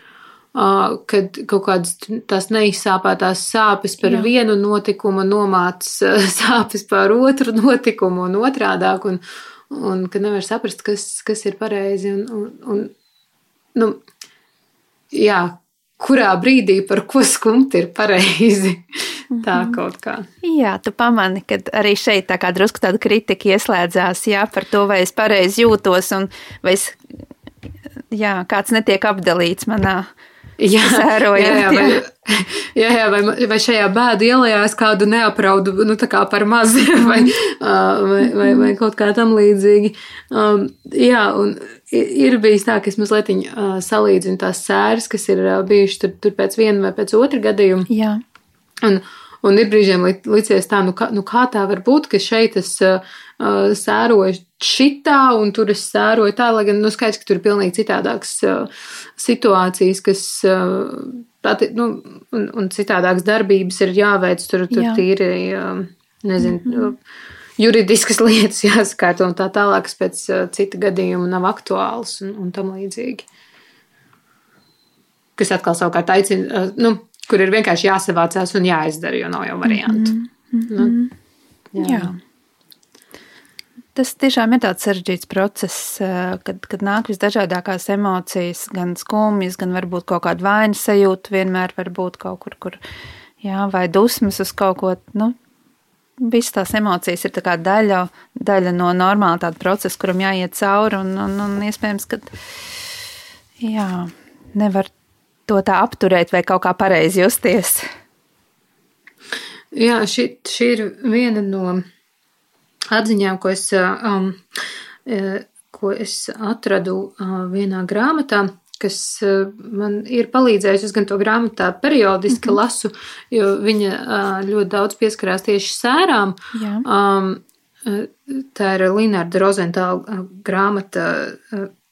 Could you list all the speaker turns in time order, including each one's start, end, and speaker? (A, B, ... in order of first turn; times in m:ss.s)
0:00.6-0:12.9 A
0:13.8-0:14.0 A
0:15.1-0:20.3 A
0:19.3-0:19.8 B
0:20.4-0:27.0 B
0:28.1-0:30.1 B
0:30.6-0:47.9 A
0:30.8-0:32.0 B
0:37.0-0:37.3 B
0:38.2-0:38.7 B
0:47.9-0:48.2 B
0:48.8-1:07.0 A
1:04.7-1:05.0 B
1:06.4-1:06.9 B
1:07.6-1:13.3 A
1:15.4-1:20.1 A
1:19.6-1:21.1 B
1:20.7-1:21.0 A
1:21.7-1:22.1 A
1:21.8-1:22.2 B
1:24.0-1:32.8 B
1:33.4-1:35.4 B
1:36.2-1:42.3 B
1:43.6-1:44.9 B
1:45.5-1:47.9 B
1:49.7-1:51.8 A
1:52.9-1:54.4 A
1:55.1-2:11.7 A
2:02.3-2:02.6 B
2:06.5-2:06.8 B